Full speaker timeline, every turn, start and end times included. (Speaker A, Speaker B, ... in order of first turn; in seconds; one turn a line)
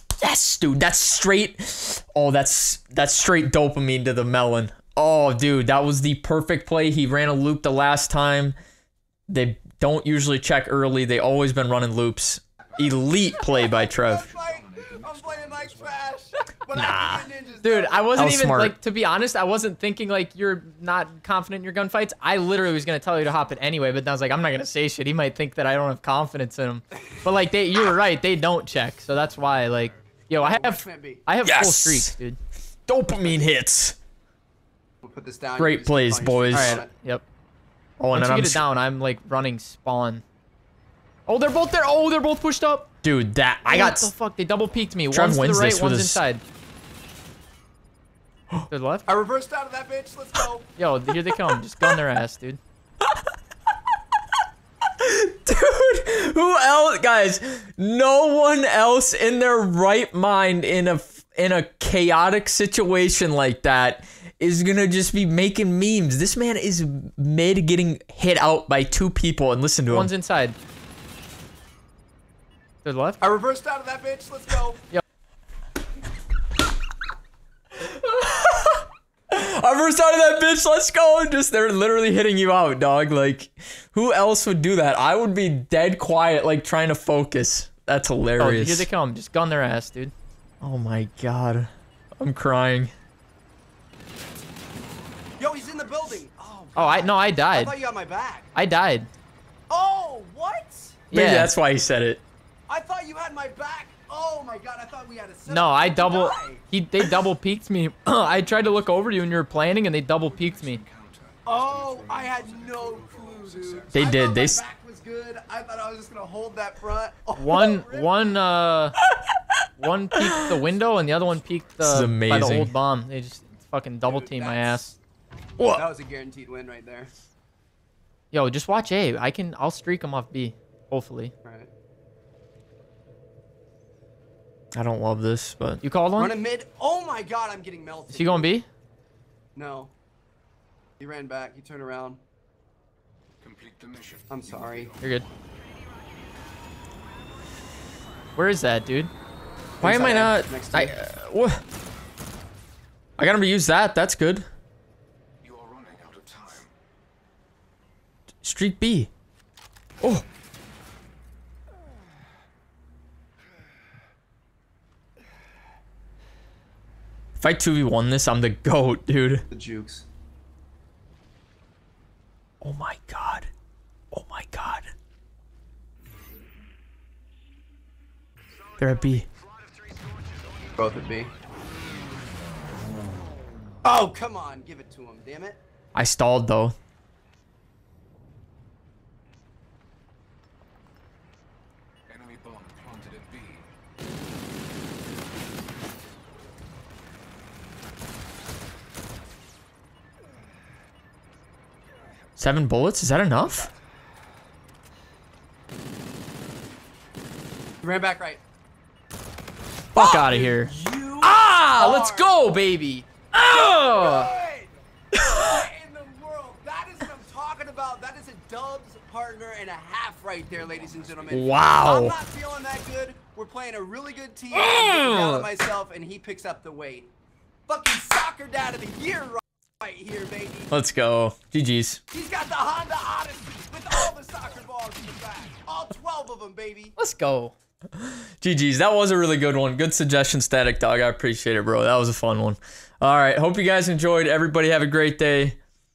Speaker A: 0.2-8.6
Speaker A: 9.3-14.2
Speaker B: 12.8-13.4
Speaker C: 13.3-18.1
Speaker B: 13.9-16.0
Speaker A: 16.7-17.2
Speaker D: 17.6-32.4
Speaker A: 18.1-18.7
Speaker B: 23.1-23.5
Speaker B: 29.4-29.9
Speaker C: 30.4-31.2
Speaker A: 31.4-32.1
Speaker A: 32.9-34.0
Speaker C: 35.0-36.9
Speaker A: 35.6-36.8
Speaker D: 36.5-37.2
Speaker A: 38.0-38.6
Speaker D: 38.1-40.2
Speaker D: 41.3-42.9
Speaker A: 43.0-44.1
Speaker D: 43.6-46.4
Speaker A: 45.1-46.2
Speaker D: 48.7-49.1
Speaker C: 49.1-50.7
Speaker D: 50.8-52.6
Speaker A: 55.0-70.1
Speaker D: 69.9-70.6
Speaker D: 72.8-73.2
Speaker C: 73.2-74.8
Speaker A: 77.8-88.9
Speaker D: 88.4-90.1
Speaker A: 90.6-92.9
Speaker C: 95.4-98.5
Speaker D: 96.7-97.7
Speaker D: 98.5-99.1
Speaker C: 99.7-101.0
Speaker D: 101.1-101.5
Speaker A: 101.1-102.2
Speaker C: 102.7-106.6
Speaker D: 105.5-110.8
Speaker B: 108.2-114.0
Speaker C: 111.5-118.4
Speaker A: 113.9-114.6
Speaker D: 117.4-119.0
Speaker D: 119.8-125.0
Speaker B: 120.6-122.0
Speaker A: 121.8-122.7
Speaker C: 124.0-124.8
Speaker A: 125.6-125.8
Speaker C: 125.7-127.1
Speaker D: 128.3-131.3
Speaker C: 131.4-131.7
Speaker A: 134.7-135.8
Speaker D: 135.8-136.3
Speaker C: 136.2-138.5
Speaker D: 138.1-138.7
Speaker C: 139.5-139.9
Speaker C: 141.0-142.2
Speaker B: 143.4-145.3
Speaker C: 144.3-144.9
Speaker D: 148.3-149.1
Speaker C: 149.8-151.0
Speaker A: 149.8-151.6
Speaker A: 153.2-154.4
Speaker B: 155.4-156.7
Speaker A: 158.4-159.1
Speaker A: 167.4-169.4
Speaker C: 169.5-170.1
Speaker A: 172.6-173.5
Speaker A: 174.1-174.9
Speaker A: 178.8-179.2
Speaker C: 180.8-181.3
Speaker C: 183.8-185.6
Speaker A: 185.9-186.7
Speaker B: 192.1-193.7
Speaker A: 202.4-203.7
Speaker C: 207.8-208.4
Speaker C: 209.9-212.3
Speaker D: 209.9-214.3
Speaker C: 213.3-227.1
Speaker B: 220.6-221.4
Speaker A: 221.3-222.1
Speaker A: 224.5-225.4
Speaker C: 227.7-230.7
Speaker A: 230.7-232.0
Speaker C: 232.1-236.9
Speaker D: 237.0-237.5
Speaker A: 238.0-245.6